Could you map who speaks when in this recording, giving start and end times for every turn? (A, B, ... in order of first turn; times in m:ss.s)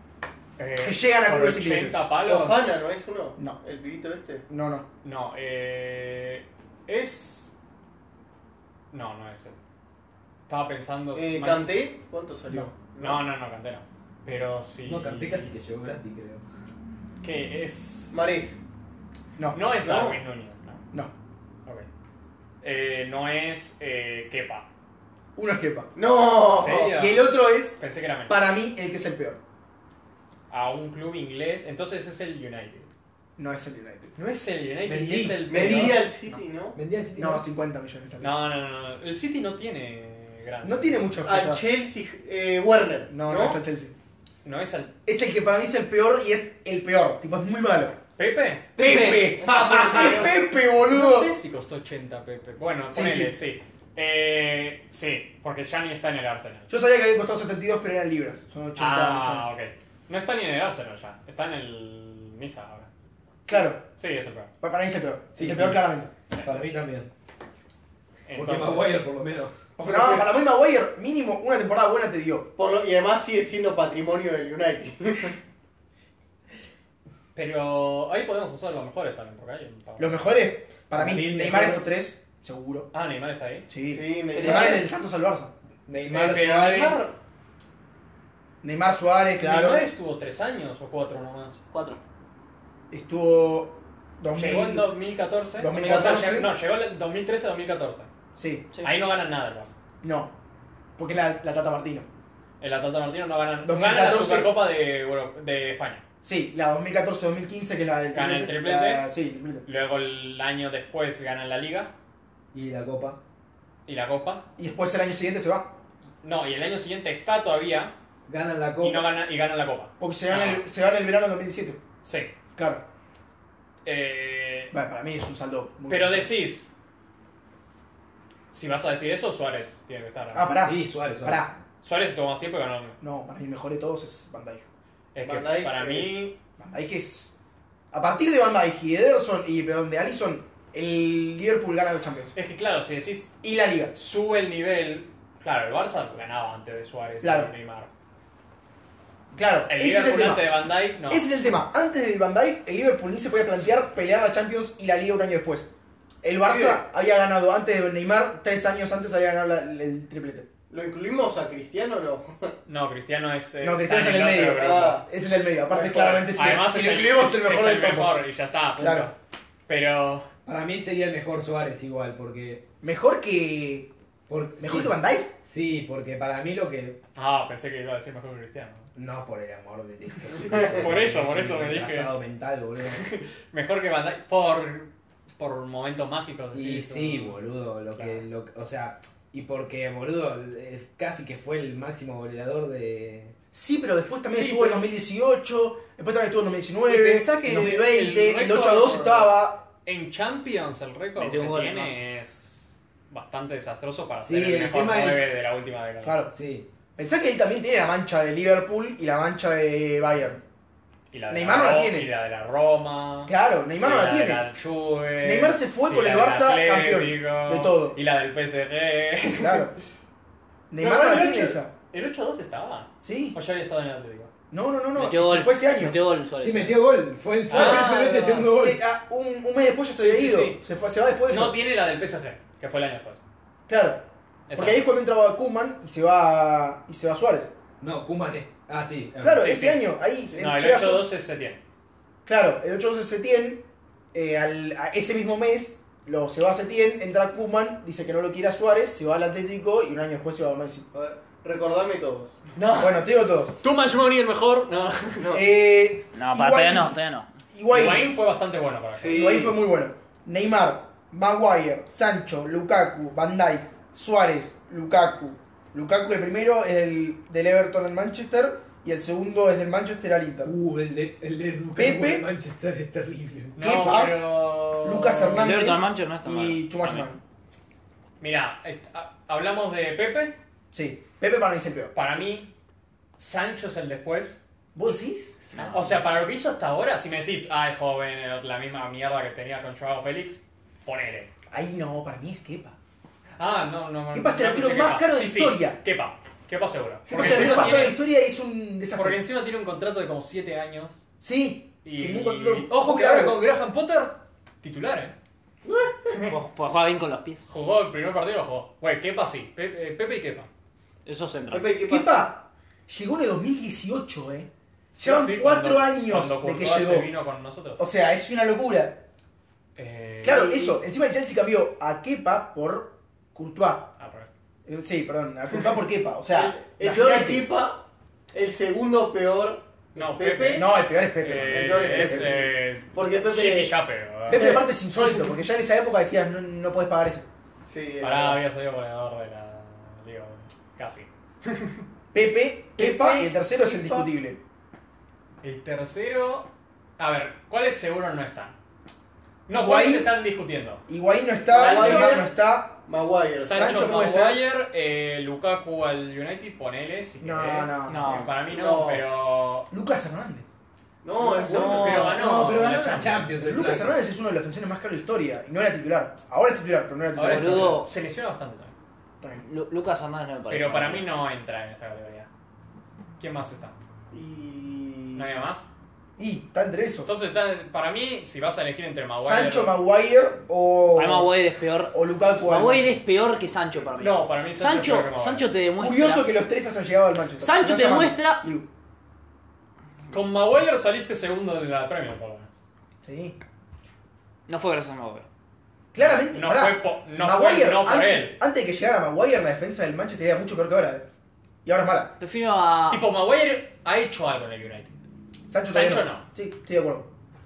0:00.6-0:02.7 A
0:00.8-0:02.0 B
0:02.2-0:04.4 C
0:04.5-0:04.9 B
0:05.0-0:07.5 A
0:08.9-0:09.6 A
0:10.5-0:11.8 A
0:11.1-0:13.2 C
0:13.0-0:15.5 A
0:14.8-0:16.4 D
0:17.2-0:18.2 A
0:18.1-0:18.6 C
0:19.5-0:20.8 A
0:19.8-0:20.2 C
0:22.6-0:24.7 A
0:25.4-0:25.9 B
0:25.9-0:27.0 C
0:26.5-0:28.4 A
0:26.9-0:29.4 B
0:30.5-0:32.9 A
0:33.4-0:34.1 B
0:34.1-0:36.0 A
0:34.8-0:36.0 D
0:35.5-0:36.8 C
0:36.7-0:37.4 D
0:37.2-0:38.4 B
0:38.2-0:41.0 A
0:40.6-0:41.6 B
0:41.2-0:43.6 C
0:43.1-0:43.9 B
0:44.4-0:44.9 A
0:45.0-0:48.0 B
0:48.2-0:56.7 A
0:48.8-0:51.4 B
0:48.8-0:50.2 C
0:52.9-0:53.3 B
0:56.7-0:59.5 B
0:58.8-1:02.9 A
1:03.5-1:03.8 B
1:04.0-1:04.5 A
1:04.6-1:06.1 B
1:05.3-1:05.8 D
1:06.3-1:06.6 A
1:06.4-1:07.1 D
1:08.2-1:09.0 A
1:08.3-1:10.2 D
1:09.8-1:12.5 B
1:12.6-1:15.4 C
1:17.3-1:20.4 A
1:20.0-1:22.9 B
1:20.9-1:21.9 D
1:22.9-1:23.7 A
1:23.7-1:25.5 B
1:23.8-1:24.8 C
1:24.3-1:24.8 E
1:25.9-1:27.1 D
1:26.1-1:27.2 A
1:28.6-1:29.9 B
1:29.4-1:31.6 A
1:31.7-1:32.0 E
1:32.9-1:34.9 B
1:34.3-1:38.1 A
1:35.6-1:36.5 B
1:38.4-1:38.7 B
1:38.8-1:39.7 A
1:40.0-1:40.3 B
1:41.0-1:42.1 B
1:42.6-1:46.0 A
1:43.6-1:44.5 B
1:46.2-1:49.6 B
1:48.1-1:49.0 A
1:49.6-1:51.9 A
1:52.5-1:53.2 D
1:53.8-1:54.5 A
1:54.6-1:55.7 B
1:56.2-1:57.9 A
1:58.3-1:59.1 D
1:58.8-2:00.6 A
2:00.0-2:01.8 B
2:02.0-2:02.3 A
2:02.5-2:02.8 B
2:03.8-2:04.7 A
2:04.7-2:06.3 B
2:05.9-2:06.7 A
2:08.5-2:10.5 A
2:10.3-2:11.5 B
2:10.6-2:11.5 D
2:11.8-2:13.0 A
2:13.0-2:14.7 B
2:15.1-2:16.3 A
2:15.2-2:16.2 C
2:16.6-2:17.3 B
2:17.9-2:22.3 B
2:22.3-2:23.3 A
2:23.4-2:23.9 B
2:23.9-2:27.9 A
2:27.2-2:27.5 B
2:29.3-2:30.6 B
2:29.7-2:31.3 A
2:31.1-2:35.7 B
2:36.2-2:40.5 B
2:36.5-2:36.8 C
2:40.7-2:42.5 C
2:42.6-2:45.0 A
2:43.6-2:48.2 B
2:44.5-2:45.1 C
2:45.7-2:46.3 C
2:45.9-2:49.1 A
2:48.8-2:49.1 B
2:49.7-2:50.3 A
2:50.4-2:52.6 D
2:52.8-2:53.9 B
2:54.3-2:57.0 D
2:54.6-2:55.3 B
2:57.1-2:58.9 A
2:58.9-3:03.1 D
3:00.5-3:02.1 A
3:03.0-3:07.4 A
3:06.5-3:13.3 D
3:07.9-3:08.2 A
3:13.5-3:19.6 B
3:14.2-3:14.9 A
3:16.9-3:19.3 A
3:19.8-3:26.2 A
3:21.2-3:22.0 E
3:24.2-3:25.2 D
3:26.0-3:26.3 B
3:26.3-3:26.6 D
3:27.0-3:30.4 B
3:31.1-3:39.7 A
3:31.3-3:32.1 B
3:33.2-3:34.5 B
3:35.2-3:38.0 B
3:39.4-3:39.7 B
3:40.7-3:41.7 B
3:40.8-3:44.3 A
3:43.0-3:43.4 B
3:44.5-3:46.0 B
3:44.9-3:46.8 E
3:46.4-3:48.8 D
3:47.5-3:48.5 A
3:47.5-3:47.8 B
3:48.6-3:51.6 B
3:50.0-3:50.6 A
3:51.2-3:53.2 A
3:53.7-3:57.5 B
3:54.5-3:54.9 A
3:57.8-3:59.5 D
3:59.2-4:01.1 B
3:59.4-4:01.6 A
4:02.2-4:10.9 B
4:10.9-4:12.3 C
4:12.6-4:13.0 A
4:12.8-4:13.6 B
4:13.6-4:15.3 A
4:15.3-4:17.0 B
4:16.1-4:17.3 E
4:17.5-4:18.1 B
4:17.7-4:19.4 A
4:18.9-4:19.6 C
4:19.1-4:30.5 B
4:30.4-4:33.6 D
4:31.7-4:32.2 B
4:33.6-4:35.6 A
4:33.6-4:37.2 B
4:35.3-4:37.0 E
4:38.2-4:40.4 A
4:40.7-4:41.9 B
4:41.9-4:42.5 A
4:43.2-4:44.4 A
4:44.7-4:45.4 B
4:45.6-4:51.3 A
4:51.5-4:52.8 B
4:53.4-4:58.0 A
4:54.1-4:55.8 B
4:57.1-4:57.8 C
4:57.1-4:59.2 B
4:58.9-5:01.0 A
5:01.2-5:03.4 B
5:01.8-5:05.1 A
5:06.2-5:07.5 E
5:07.5-5:10.5 A
5:11.0-5:11.7 E
5:11.5-5:12.3 C
5:11.8-5:14.5 B
5:14.9-5:17.8 A
5:15.0-5:17.1 B
5:17.8-5:19.0 B
5:19.8-5:20.6 A
5:20.2-5:23.9 B
5:24.0-5:24.3 A
5:24.6-5:27.5 B
5:26.3-5:27.8 C
5:28.3-5:30.7 C
5:30.0-5:34.6 A
5:30.5-5:32.4 B
5:31.4-5:33.7 C
5:34.3-5:37.3 B
5:34.3-5:34.6 C
5:37.6-5:38.4 C
5:38.0-5:41.1 A
5:42.1-5:44.4 B
5:42.8-5:44.1 C
5:45.4-5:48.5 A
5:49.5-5:50.8 A
5:49.5-5:50.1 B
5:50.9-5:52.8 B
5:51.5-5:52.2 A
5:51.5-5:52.3 C
5:52.8-5:53.9 C
5:53.4-5:59.7 A
5:53.5-5:54.4 B
5:57.2-5:58.0 B
5:57.9-5:58.4 E
5:58.5-5:59.0 C
5:59.7-6:00.5 B
6:01.0-6:02.1 C
6:01.4-6:03.4 A
6:01.4-6:04.0 D
6:01.5-6:02.2 E
6:03.4-6:07.8 B
6:07.2-6:08.7 A
6:07.2-6:07.9 E
6:09.2-6:09.5 B
6:09.4-6:11.1 E
6:10.5-6:12.3 A
6:13.2-6:13.8 A
6:14.1-6:15.4 C
6:15.1-6:15.7 A
6:16.2-6:17.1 B
6:17.0-6:19.7 A
6:19.2-6:21.3 B
6:20.9-6:26.2 E
6:21.9-6:23.0 B
6:24.0-6:25.5 A
6:25.8-6:28.7 B
6:27.4-6:28.4 E
6:30.1-6:32.5 A
6:33.0-6:33.4 B
6:34.5-6:35.3 E
6:35.9-6:41.0 B
6:36.0-6:38.4 A
6:41.6-6:42.1 B
6:42.2-6:43.0 E
6:42.9-6:45.0 A
6:45.5-6:47.1 B
6:45.7-6:46.2 A